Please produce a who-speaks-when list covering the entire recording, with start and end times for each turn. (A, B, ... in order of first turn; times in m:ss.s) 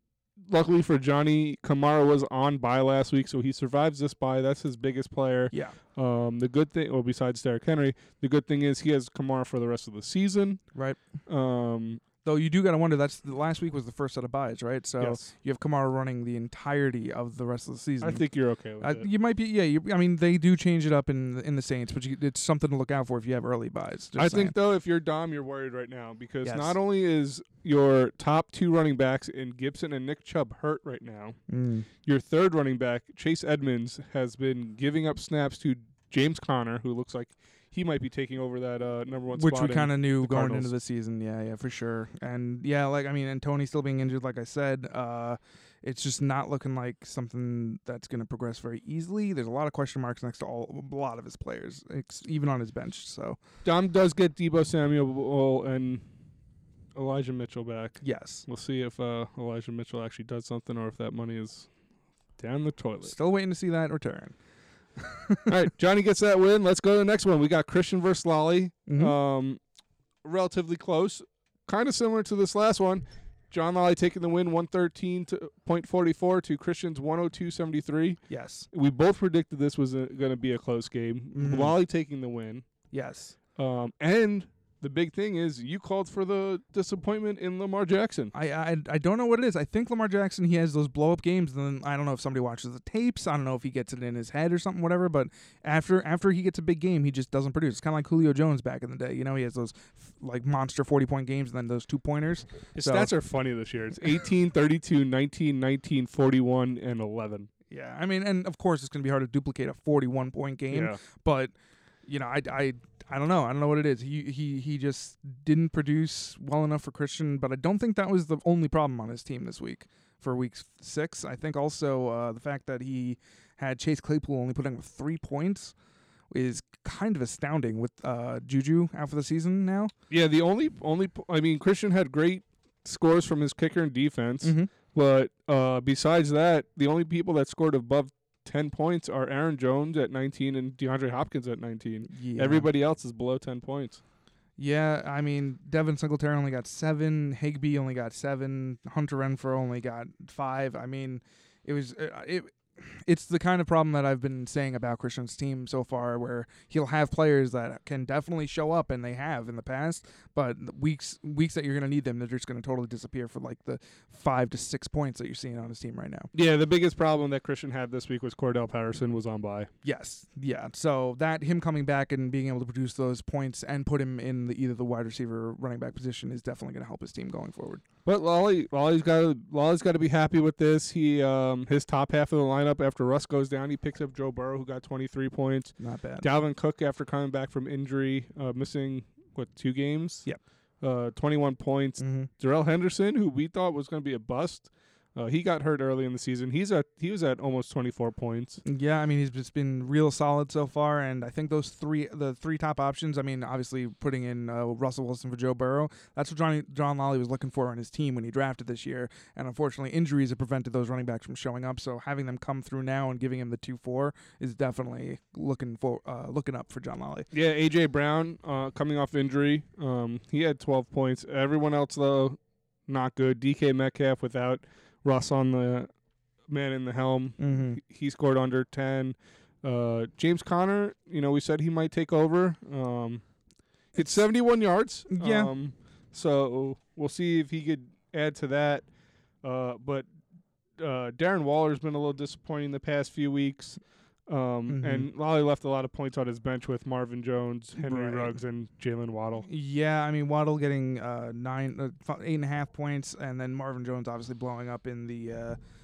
0:00.5-0:10.6 A
0:05.5-0:05.8 B
0:10.7-0:11.0 B
0:11.3-0:12.0 A
0:12.2-0:18.2 B
0:15.0-0:15.3 A
0:18.0-0:19.1 A
0:18.8-0:24.6 B
0:24.2-0:31.4 A
0:26.4-0:26.8 B
0:31.5-0:31.9 B
0:32.0-0:40.7 A
0:39.3-0:53.4 B
0:53.6-0:56.0 A
0:57.0-1:01.7 A
0:58.0-0:58.5 B
1:02.4-1:03.1 A
1:03.0-1:04.4 B
1:05.0-1:05.5 B
1:05.5-1:09.6 A
1:08.9-1:09.2 B
1:10.2-1:18.2 A
1:18.3-1:18.7 B
1:18.7-1:22.6 A
1:21.3-1:21.8 B
1:22.9-1:23.4 B
1:23.6-1:28.3 A
1:28.3-1:43.1 B
1:42.8-1:47.5 A
1:47.7-1:51.5 B
1:50.7-1:51.0 A
1:52.1-2:05.7 B
2:06.3-2:09.9 B
2:10.1-2:24.0 A
2:14.4-2:14.7 B
2:22.1-2:22.7 B
2:24.6-2:46.3 B
2:46.3-2:49.7 A
2:49.8-2:57.8 B
2:58.1-3:10.3 A
3:05.8-3:06.3 B
3:10.8-3:18.6 A
3:12.0-3:12.3 B
3:18.6-3:37.3 B
3:37.3-3:45.9 A
3:46.5-3:53.2 A
3:47.4-3:47.8 B
3:53.9-3:58.9 A
3:54.0-3:54.2 B
3:55.1-3:55.5 B
3:59.4-4:00.1 A
4:00.8-4:09.5 A
4:04.7-4:05.1 B
4:07.8-4:08.4 B
4:09.4-4:15.6 B